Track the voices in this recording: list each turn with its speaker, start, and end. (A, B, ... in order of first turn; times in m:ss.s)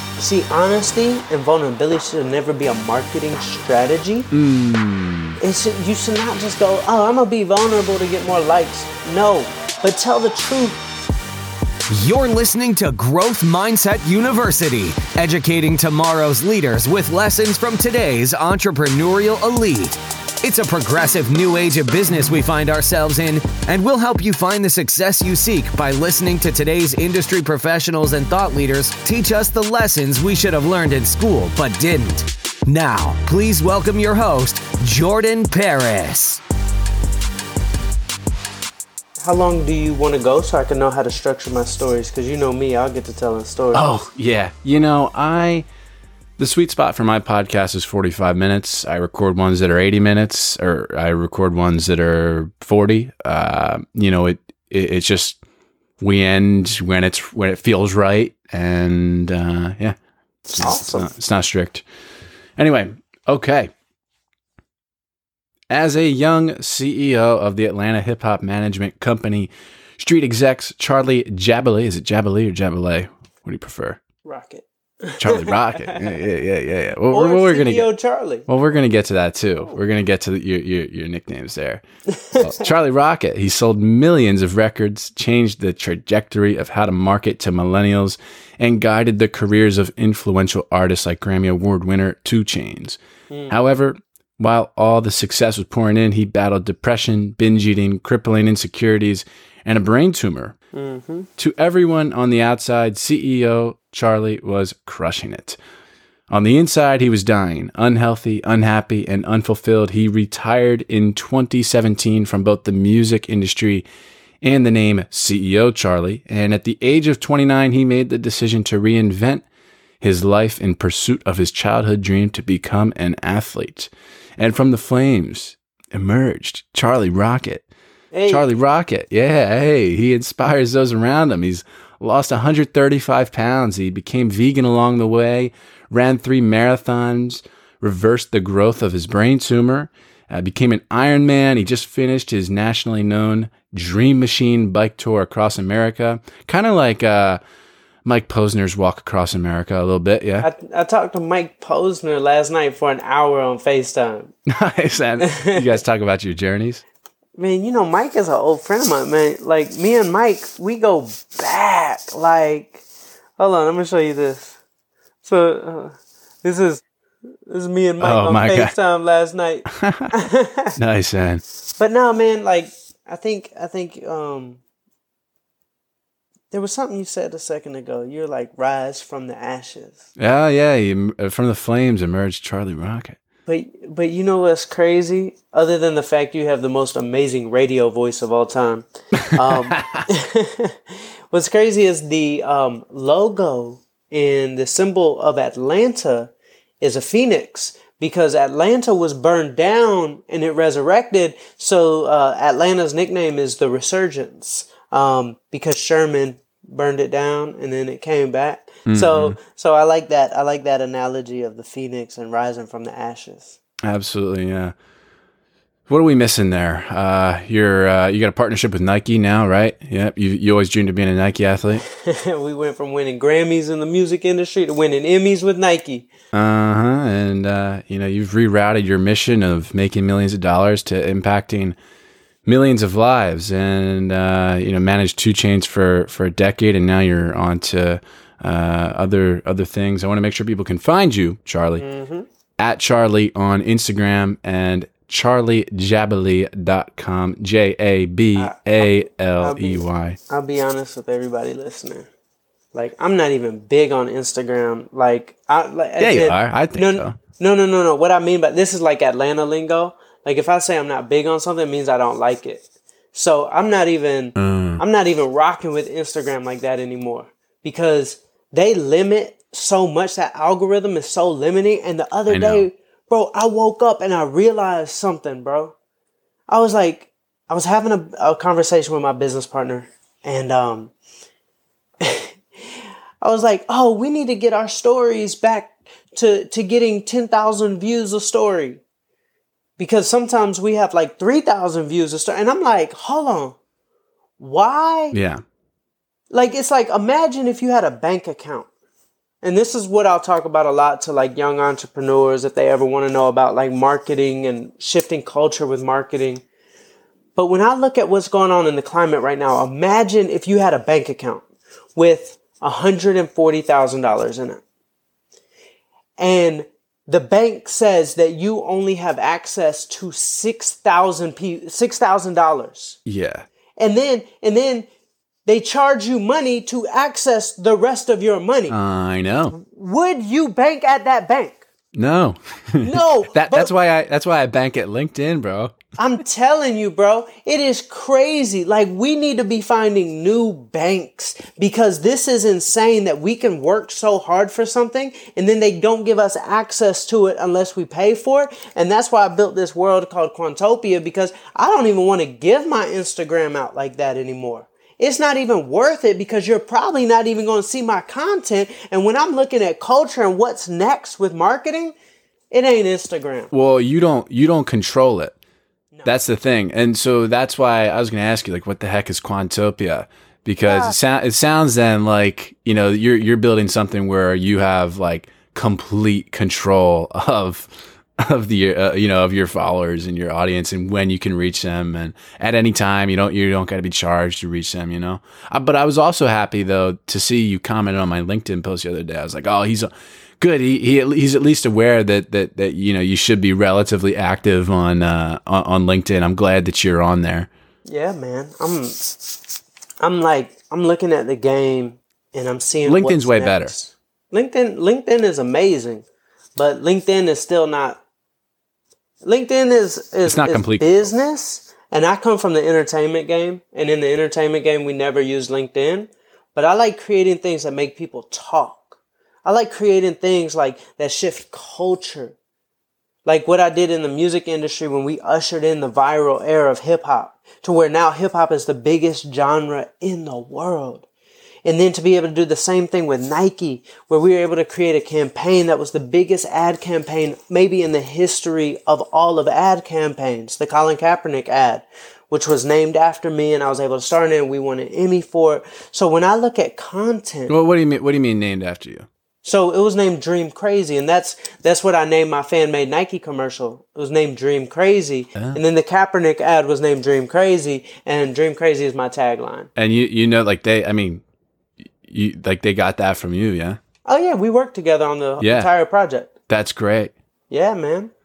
0:00.2-0:04.3 A
0:04.3-0:05.4 B
0:05.4-0:10.8 A
0:11.9-0:36.4 C
0:39.2-0:43.9 A
0:43.7-0:45.6 B
0:46.4-0:55.4 B
0:56.0-1:00.0 B
1:00.5-1:01.1 A
1:00.5-1:01.8 B
1:02.6-1:03.7 B
1:05.7-1:14.0 B
1:14.2-1:16.1 A
1:15.2-1:17.9 B
1:17.1-1:18.5 A
1:18.5-1:21.8 B
1:22.1-1:22.7 A
1:22.4-1:40.6 B
1:33.3-1:33.5 A
1:40.7-1:41.3 A
1:41.4-1:45.6 B
1:46.3-1:53.8 B
1:54.4-1:59.4 B
2:00.0-2:07.6 B
2:08.1-2:08.6 A
2:08.3-2:27.4 B
2:28.0-2:30.5 B
2:30.4-2:34.3 A
2:34.5-2:36.8 B
2:35.2-2:35.6 A
2:37.4-2:42.8 A
2:43.4-2:44.6 A
2:45.2-2:46.8 A
2:47.5-2:50.8 A
2:48.0-2:48.7 B
2:49.7-2:50.1 B
2:50.8-2:51.4 B
2:51.8-2:54.6 A
2:56.5-3:00.0 A
3:00.2-3:03.2 B
3:03.5-3:33.6 A
3:09.2-3:10.0 B
3:28.9-3:29.4 B
3:33.8-3:34.7 B
3:35.9-3:41.8 B
3:41.9-3:46.1 A
3:46.3-3:51.8 B
3:52.4-4:01.8 B
4:01.8-4:02.3 A
4:02.6-4:10.2 B
4:08.4-4:12.1 A
4:12.7-4:35.7 A
4:16.0-4:17.2 B
4:24.4-4:24.8 B
4:32.3-4:32.6 B
4:36.5-4:40.9 A
4:42.0-4:42.4 A
4:43.2-4:48.8 A
4:49.8-4:53.6 A
4:54.4-4:55.2 A
4:55.1-4:55.4 B
4:56.3-4:58.7 A
4:59.4-5:06.4 A
5:07.4-5:11.4 A
5:12.0-5:14.6 A
5:16.2-5:23.0 A
5:23.0-5:23.4 B
5:23.8-5:24.9 A
5:25.4-5:28.8 A
5:28.7-5:29.5 B
5:29.5-5:31.6 A
5:31.9-5:35.8 B
5:32.8-5:33.7 A
5:36.0-6:01.9 A
6:02.5-6:03.5 A
6:03.5-6:05.3 B
6:06.0-6:37.5 B
6:10.6-6:11.0 A
6:37.8-6:39.3 A
6:40.0-6:46.0 A
6:42.8-6:43.7 B
6:46.6-6:48.0 A
6:49.2-7:02.4 A
6:50.2-6:51.1 B
7:03.2-7:11.0 A
7:11.6-7:27.5 A
7:27.5-7:29.1 B
7:29.4-7:39.7 A
7:39.8-7:41.2 B
7:42.0-7:43.8 B
7:44.0-7:46.3 A
7:45.4-7:45.7 B
7:46.5-7:47.1 B
7:47.5-7:48.1 A